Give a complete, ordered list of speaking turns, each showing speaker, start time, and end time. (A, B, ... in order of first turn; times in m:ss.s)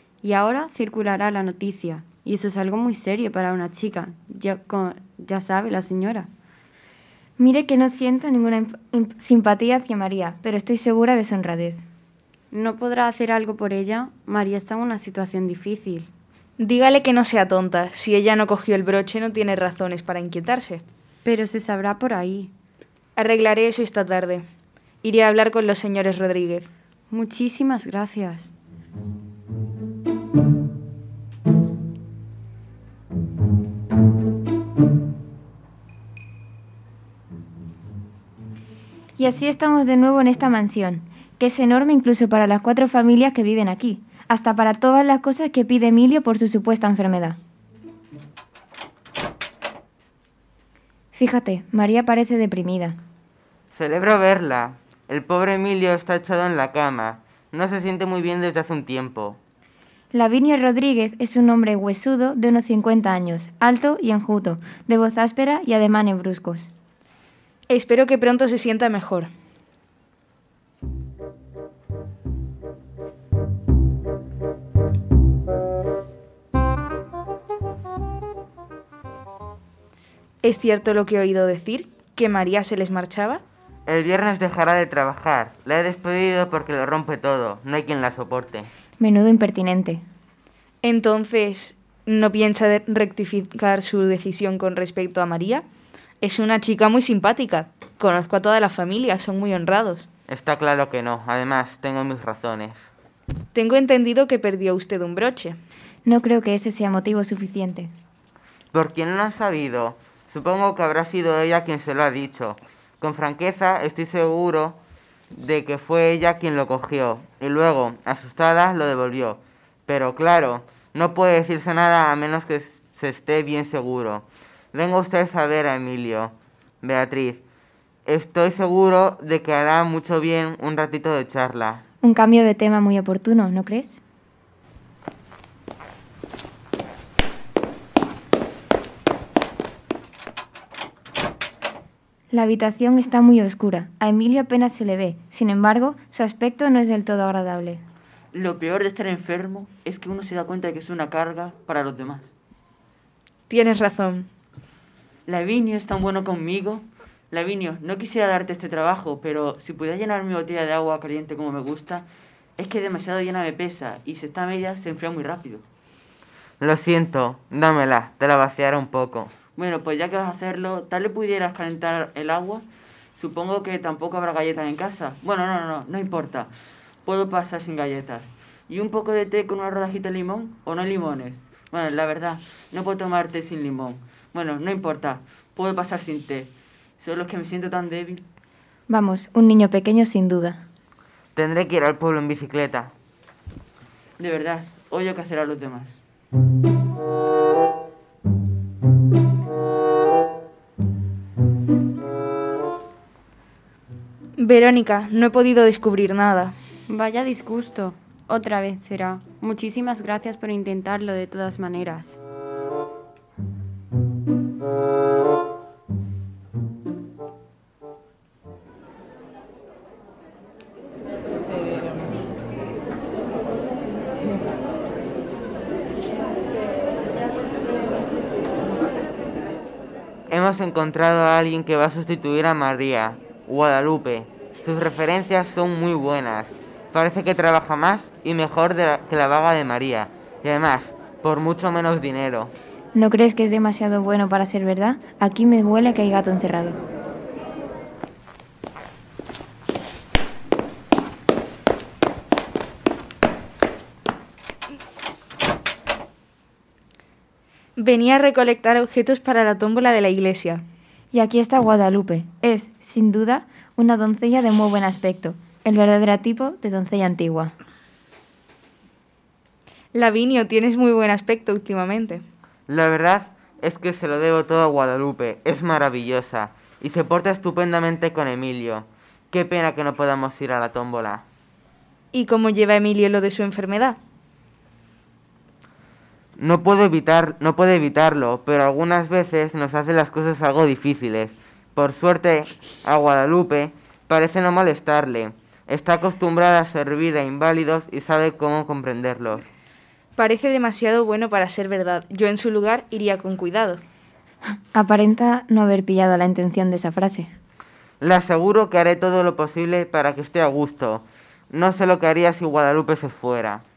0:00.2-0:06.3 A
0:07.4-0:11.8 B
0:12.5-0:16.1 A
0:16.6-0:20.8 C
0:21.2-0:22.5 A
0:23.2-0:24.4 C
0:25.0-0:26.7 C
0:27.1-0:28.5 A
0:39.2-0:47.4 B
0:51.1-0:53.0 B
0:53.7-0:59.4 D
1:00.1-1:06.7 B
1:07.7-1:09.3 C
1:20.4-1:23.4 C
1:23.8-1:28.7 D
1:29.0-1:30.0 B
1:30.8-1:35.6 C
1:36.2-1:40.1 C
1:40.3-1:42.9 D
1:43.5-1:45.6 C
1:46.0-1:47.9 B
1:48.7-1:54.8 D
1:55.3-2:07.4 D
2:08.0-2:11.8 D
2:12.0-2:14.0 B
2:22.3-2:27.8 B
2:28.3-2:32.3 E
2:33.5-2:34.3 C
2:35.3-2:42.0 E
2:42.6-2:45.6 E
2:46.6-2:49.3 D
2:49.6-2:52.6 E
2:53.2-2:56.5 E
2:57.0-3:08.2 E
3:08.9-3:10.6 B
3:11.4-3:12.9 D
3:14.2-3:16.0 E
3:24.4-3:26.5 C
3:26.9-3:32.2 A
3:50.3-4:02.5 D
4:02.9-4:06.8 B
4:17.8-4:20.6 C
4:21.1-4:27.5 B
4:29.9-4:32.2 C
4:32.7-4:41.2 D
4:42.1-4:44.0 C
4:46.4-4:59.4 D
5:00.2-5:03.8 C
5:04.7-5:07.3 B
5:08.0-5:13.6 D